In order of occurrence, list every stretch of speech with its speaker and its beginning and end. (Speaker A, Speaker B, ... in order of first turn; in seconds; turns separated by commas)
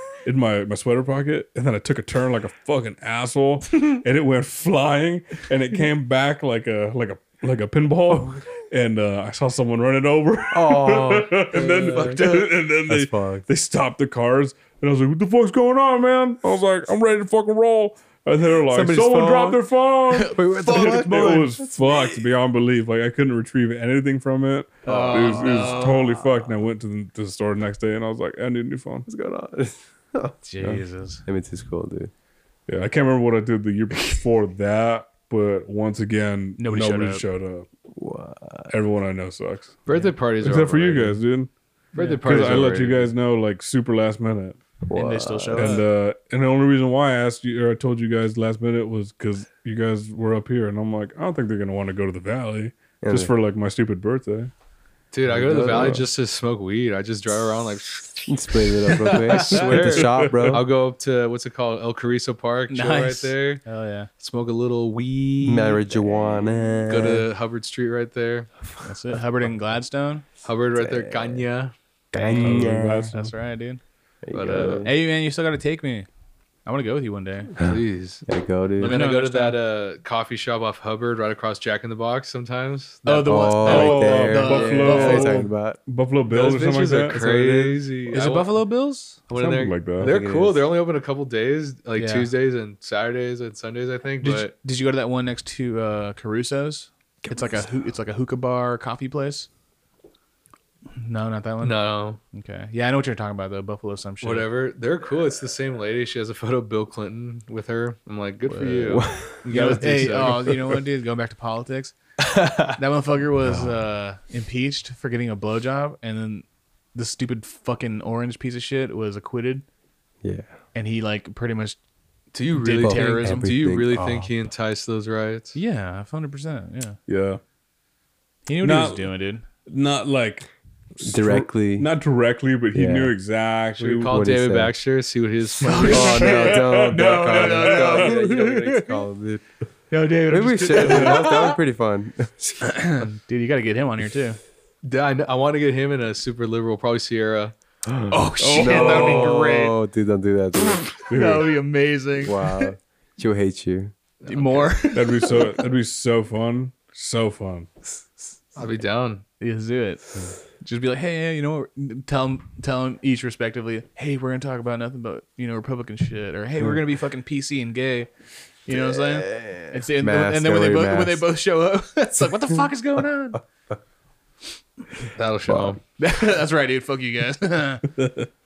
Speaker A: 0.2-29.1, Speaker B: 10.5-12.3, Speaker C: 11.9-12.5, Speaker B: 12.9-13.4, Speaker B: 18.7-19.6, Speaker C: 20.1-21.4, Speaker B: 20.3-22.1, Speaker C: 24.9-26.4, Speaker D: 24.9-25.4, Speaker B: 24.9-25.7, Speaker B: 29.1-32.1, Speaker C: 30.5-31.2, Speaker A: 32.7-37.6, Speaker C: 36.6-37.2, Speaker B: 37.9-38.7, Speaker A: 38.7-39.8, Speaker D: 39.9-41.2, Speaker A: 40.4-41.5, Speaker D: 41.9-43.1, Speaker A: 42.2-44.6, Speaker B: 44.9-45.8, Speaker C: 44.9-45.8, Speaker A: 45.5-54.5, Speaker B: 53.0-53.3, Speaker D: 55.1-63.6, Speaker B: 55.3-56.0, Speaker A: 55.6-56.0, Speaker B: 58.3-60.6, Speaker C: 59.0-59.8, Speaker A: 59.7-60.6, Speaker C: 62.7-64.1, Speaker D: 64.2-65.9, Speaker B: 65.4-67.3, Speaker D: 66.8-68.5, Speaker C: 68.8-70.2, Speaker D: 70.4-72.5, Speaker B: 70.7-71.5, Speaker C: 72.1-73.8, Speaker B: 72.2-73.1, Speaker A: 72.4-73.2, Speaker B: 74.2-74.9, Speaker D: 74.3-74.9, Speaker C: 74.6-76.1, Speaker C: 76.6-77.5, Speaker D: 77.6-78.2, Speaker B: 78.2-79.0, Speaker D: 78.8-83.7, Speaker C: 78.8-79.6, Speaker C: 83.0-85.4, Speaker B: 83.2-85.8, Speaker A: 83.6-87.6, Speaker D: 86.3-88.6, Speaker B: 87.1-87.8, Speaker C: 88.1-89.2, Speaker D: 89.2-94.5, Speaker A: 89.3-90.2, Speaker B: 90.0-90.6, Speaker C: 92.0-92.3, Speaker C: 94.2-99.5, Speaker B: 97.2-97.6, Speaker C: 101.0-104.5, Speaker D: 101.6-102.2, Speaker D: 104.2-110.5, Speaker C: 108.5-112.0, Speaker B: 108.8-109.4, Speaker D: 112.2-112.8, Speaker C: 112.7-119.6, Speaker B: 113.4-113.8, Speaker B: 120.2-120.5, Speaker C: 120.7-121.8, Speaker D: 122.3-125.6, Speaker C: 122.5-123.5, Speaker B: 122.8-124.3, Speaker C: 125.5-127.0, Speaker A: 127.1-127.4, Speaker C: 128.4-129.4, Speaker A: 128.6-129.1, Speaker A: 129.7-130.5, Speaker A: 131.0-134.1, Speaker B: 131.0-131.9, Speaker B: 132.7-133.1, Speaker D: 133.8-136.5, Speaker B: 134.1-134.8, Speaker C: 135.6-139.0, Speaker B: 135.7-139.4, Speaker A: 136.2-138.1, Speaker C: 139.9-141.6, Speaker B: 140.3-142.6, Speaker A: 140.7-141.3, Speaker C: 142.6-144.4, Speaker D: 144.8-147.5, Speaker B: 147.8-150.9, Speaker C: 148.1-149.8, Speaker A: 148.4-149.3, Speaker C: 150.6-152.7, Speaker A: 151.1-151.5, Speaker B: 152.2-153.9, Speaker D: 154.2-154.8, Speaker C: 154.3-155.5, Speaker A: 154.9-157.7, Speaker D: 158.6-159.2, Speaker C: 159.4-168.1, Speaker C: 168.7-173.4, Speaker B: 168.7-171.2, Speaker D: 175.1-175.8, Speaker B: 175.5-175.8, Speaker C: 176.0-177.8, Speaker A: 177.9-178.3